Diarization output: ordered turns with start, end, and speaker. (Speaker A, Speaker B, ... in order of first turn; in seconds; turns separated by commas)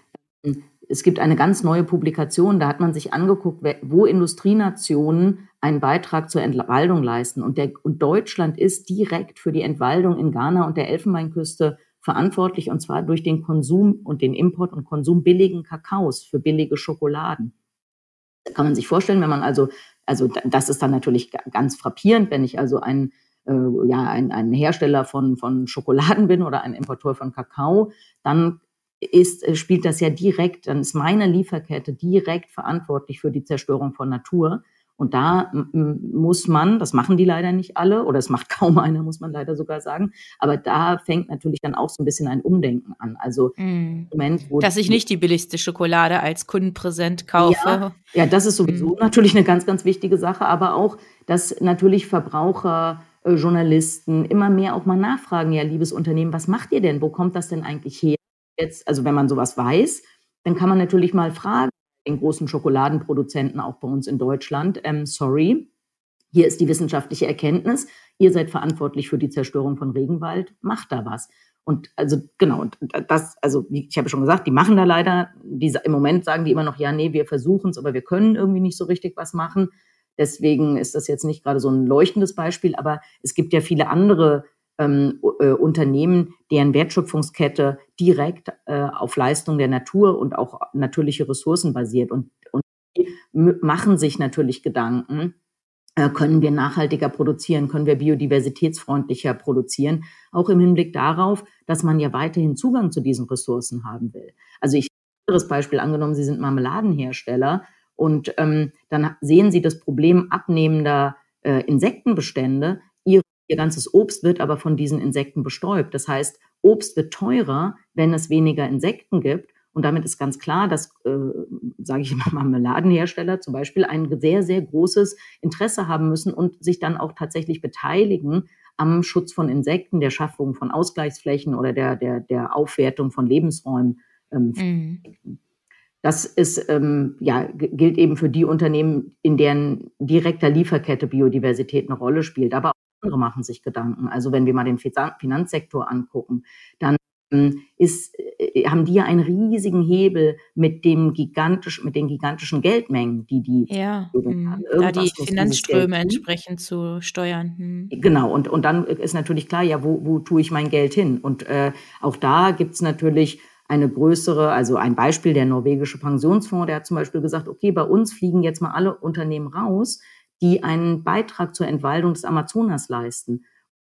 Speaker A: 0.4-17.5, Speaker A: 18.5-43.5, Speaker B: 43.6-48.0, Speaker A: 44.1-45.0, Speaker A: 47.4-65.7, Speaker A: 66.3-95.3, Speaker A: 96.0-135.4, Speaker B: 134.6-135.0, Speaker A: 136.0-156.2, Speaker B: 153.7-157.9, Speaker A: 157.9-173.4